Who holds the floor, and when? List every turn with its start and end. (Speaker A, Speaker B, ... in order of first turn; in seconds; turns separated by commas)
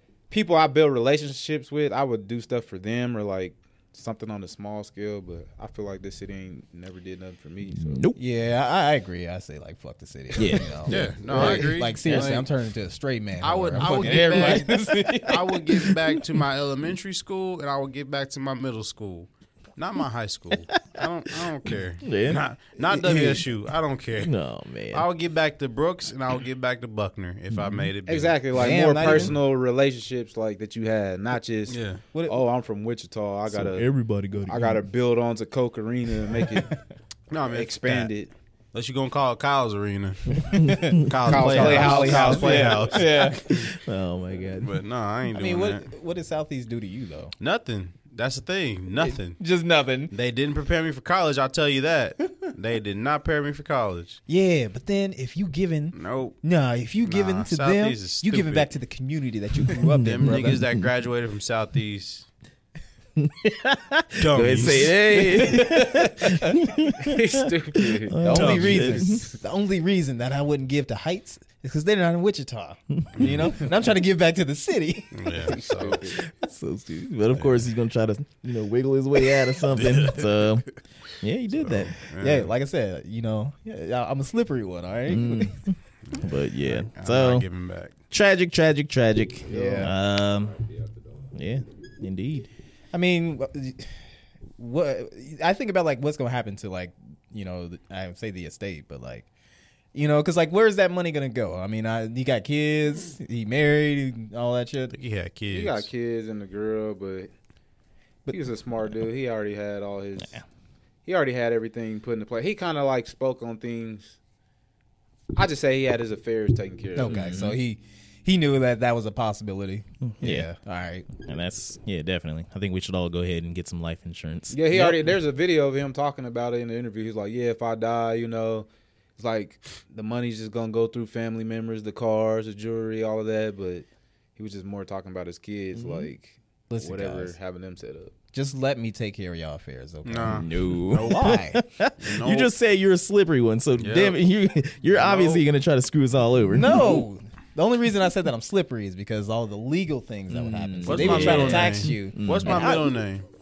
Speaker A: 0.3-8.0, Speaker B: 7.7-8.2, Speaker C: 8.2-15.9, Speaker B: 10.3-12.3, Speaker D: 10.9-12.5, Speaker D: 13.4-24.3, Speaker B: 14.4-14.6, Speaker B: 22.0-22.4, Speaker C: 22.9-23.4, Speaker B: 24.2-25.1, Speaker D: 24.9-28.4, Speaker B: 27.5-27.9, Speaker A: 28.1-33.9, Speaker C: 28.5-29.3, Speaker D: 31.7-32.0, Speaker C: 32.1-32.4, Speaker B: 33.5-34.8, Speaker A: 34.5-36.7, Speaker D: 37.3-38.1, Speaker A: 37.5-38.3, Speaker D: 38.7-43.7, Speaker B: 40.5-41.2, Speaker C: 40.5-43.4, Speaker A: 41.2-43.0, Speaker B: 43.4-44.8, Speaker D: 44.6-45.9, Speaker C: 45.3-47.3, Speaker D: 47.4-49.4, Speaker C: 49.0-50.1, Speaker D: 50.1-54.2, Speaker C: 54.3-60.6, Speaker D: 55.9-56.4, Speaker D: 57.0-58.7, Speaker B: 59.6-60.9, Speaker D: 60.0-62.3, Speaker B: 63.2-69.3, Speaker D: 64.2-65.0, Speaker C: 65.1-66.6, Speaker A: 67.0-68.6, Speaker C: 68.2-75.5, Speaker D: 68.3-69.0, Speaker B: 73.0-73.5, Speaker D: 73.2-73.5, Speaker D: 75.1-76.0, Speaker A: 75.5-76.2, Speaker B: 76.2-81.9, Speaker D: 79.7-80.5, Speaker D: 81.5-82.5, Speaker C: 82.1-85.5, Speaker B: 85.1-87.5, Speaker D: 86.1-87.9, Speaker B: 88.1-90.6, Speaker C: 89.5-89.9, Speaker B: 91.3-92.5, Speaker C: 92.9-94.0, Speaker C: 94.6-99.3, Speaker C: 99.9-105.0, Speaker D: 104.9-105.9, Speaker A: 105.5-107.3, Speaker A: 108.3-110.4, Speaker A: 111.0-114.2, Speaker A: 115.3-117.2, Speaker C: 116.9-121.1, Speaker B: 117.0-117.5, Speaker B: 120.0-120.5, Speaker B: 121.1-125.1, Speaker A: 124.5-138.1, Speaker B: 135.8-136.1, Speaker C: 136.7-137.3, Speaker C: 138.3-141.6, Speaker D: 140.0-141.3, Speaker B: 140.3-147.0, Speaker D: 142.0-142.5, Speaker D: 143.8-144.2, Speaker D: 144.9-145.4, Speaker C: 146.5-152.9, Speaker B: 150.3-152.7, Speaker D: 150.8-153.2